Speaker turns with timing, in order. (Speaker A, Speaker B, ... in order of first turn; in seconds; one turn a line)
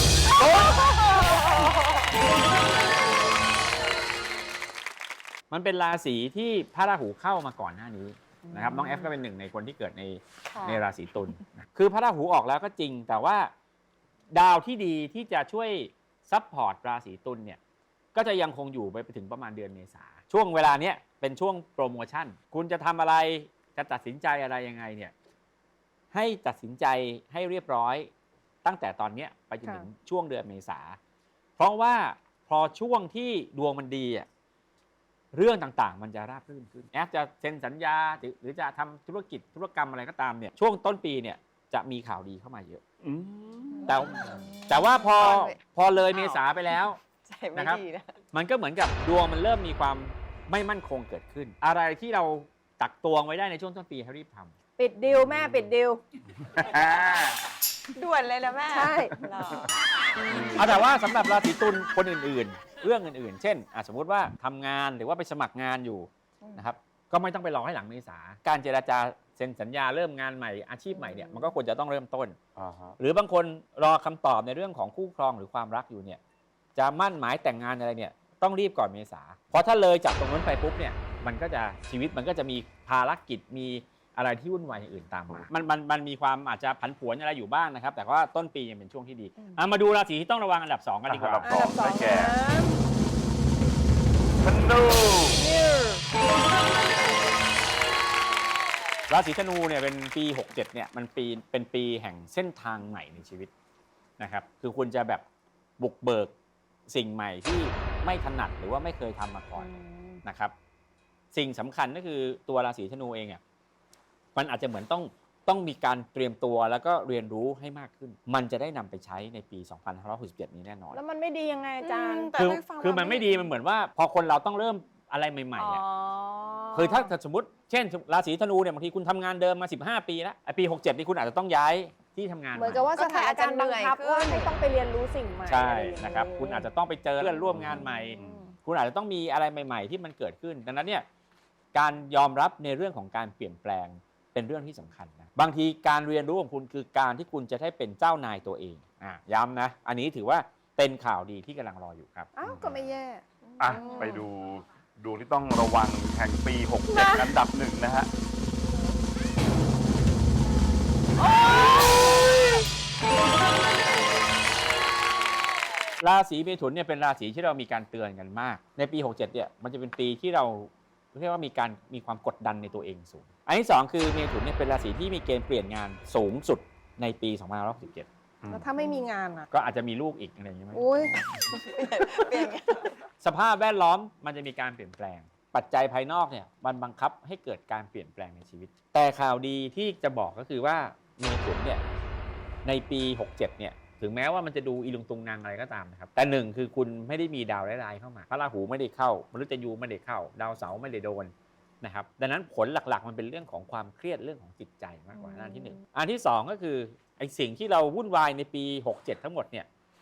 Speaker A: 0.6-1.8
Speaker B: 5.5-13.5
Speaker C: 8.5-9.0
Speaker A: 10.5-10.8
Speaker B: 14.3-17.6
Speaker B: 18.1-25.1
Speaker B: 26.1-28.1
Speaker B: 28.6-31.0
Speaker B: 31.6-34.3
Speaker B: 35.3-42.8
Speaker D: 43.0-43.9
Speaker A: 43.7-46.4
Speaker B: 43.9-47.0
Speaker A: 47.1-48.1
Speaker B: 47.5-54.5
Speaker C: 54.8-56.0
Speaker D: 55.1-55.6
Speaker D: 56.5-57.4
Speaker A: 58.0-59.7
Speaker C: 58.7-59.2
Speaker D: 60.3-60.6
Speaker B: 60.6-72.4
Speaker D: 72.6-73.0
Speaker B: 73.0-76.2
Speaker B: 76.8-91.5
Speaker D: 91.1-92.4
Speaker C: 91.4-92.8
Speaker D: 94.4-95.5
Speaker C: 95.3-96.0
Speaker B: 99.1-103.5
Speaker B: 104.2-105.2
Speaker B: 105.8-106.3
Speaker B: 106.9-110.5
Speaker C: 109.5-110.2
Speaker B: 111.3-113.4
Speaker B: 114.3-121.0
Speaker C: 120.9-122.5
Speaker A: 121.8-123.3
Speaker B: 122.3-125.8
Speaker C: 123.0-123.5
Speaker A: 125.6-126.9
Speaker B: 126.7-132.9
Speaker C: 132.5-138.5
Speaker A: 132.9-134.6
Speaker B: 135.5-141.1
Speaker D: 137.5-138.5
Speaker B: 141.7-152.7
Speaker C: 152.4-154.2
Speaker D: 152.4-152.9
Speaker D: 153.6-158.1
Speaker A: 153.7-154.1
Speaker C: 156.9-157.3
Speaker A: 161.7-162.1
Speaker B: 166.0-178.1
Speaker D: 178.4-178.7
Speaker C: 178.5-179.5
Speaker B: 179.5-181.2
Speaker C: 180.7-181.2
Speaker A: 181.5-182.9
Speaker B: 183.2-191.8
Speaker B: 192.7-209.7
Speaker C: 205.2-205.8